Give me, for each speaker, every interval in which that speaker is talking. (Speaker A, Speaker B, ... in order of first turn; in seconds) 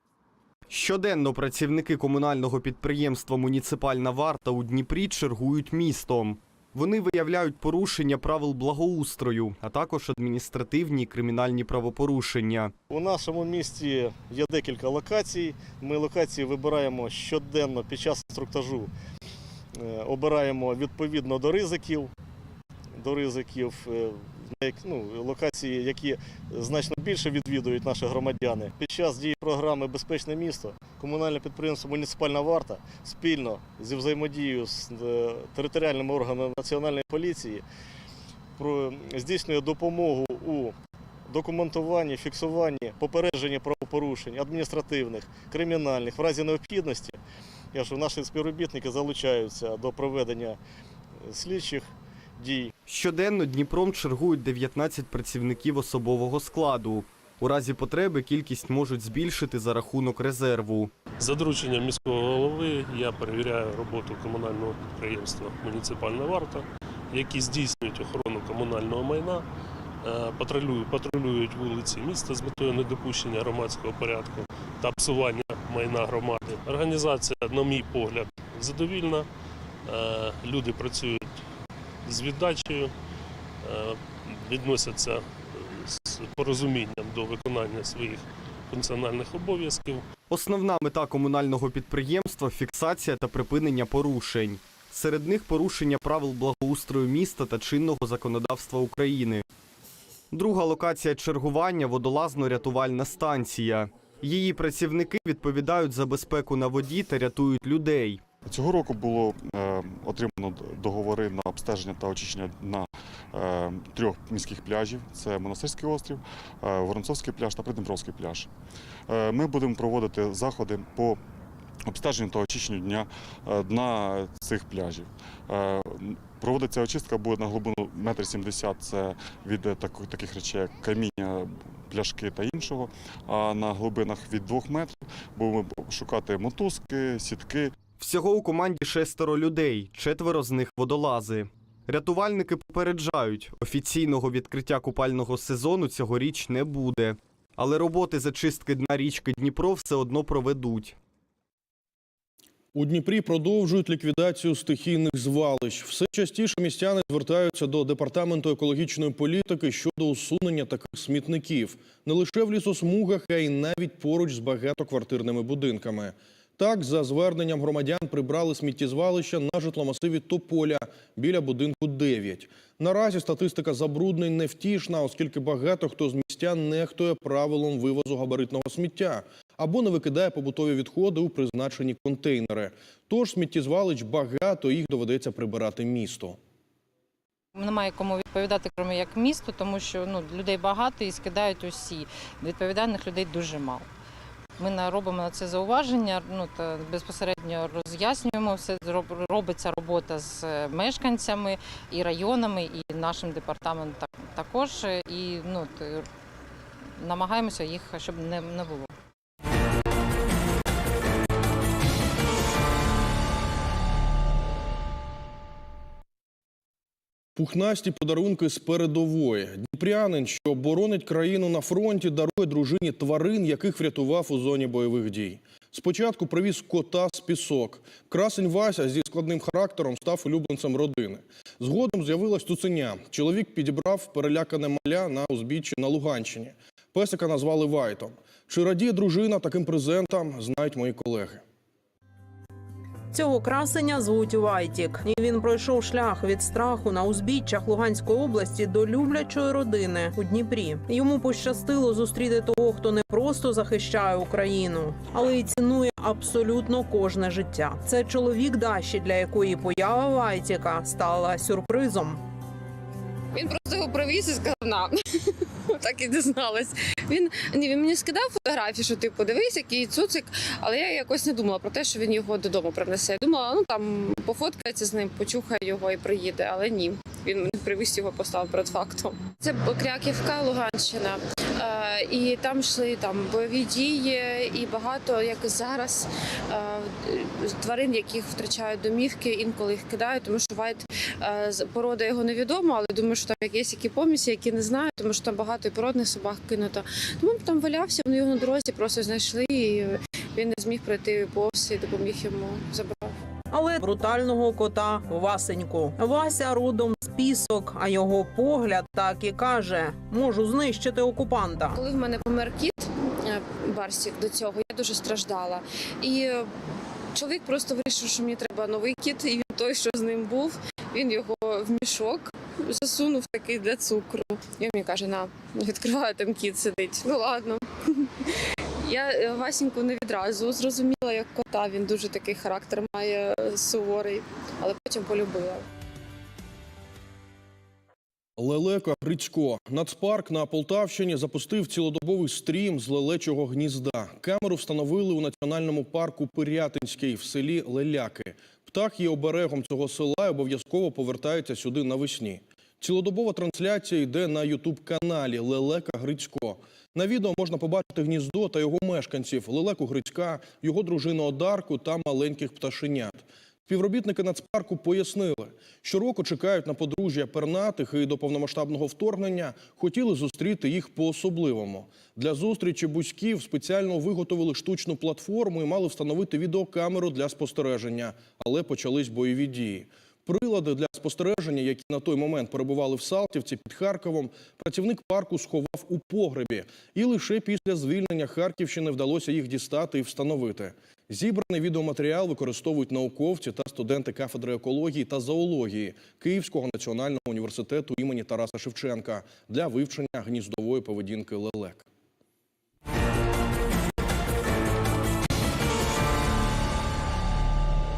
Speaker A: 0.7-12.7, 52.9-60.9, 90.3-99.4, 100.3-108.2, 137.9-150.9
Speaker B: 12.9-18.9, 19.8-22.1, 22.9-37.6, 38.6-40.7, 41.3-47.2, 47.7-50.6, 51.2-52.7
Speaker C: 61.2-69.4, 70.0-79.3, 79.8-81.3, 82.0-82.9, 83.6-90.0
Speaker D: 108.4-118.5, 119.1-121.2, 121.8-137.8
Speaker E: 152.7-186.4, 217.3-241.4, 338.4-401.9
Speaker F: 187.5-193.9, 194.6-206.1, 207.0-208.9
Speaker G: 243.1-262.2, 303.5-311.8
Speaker H: 263.3-303.1, 311.8-316.5, 317.1-335.6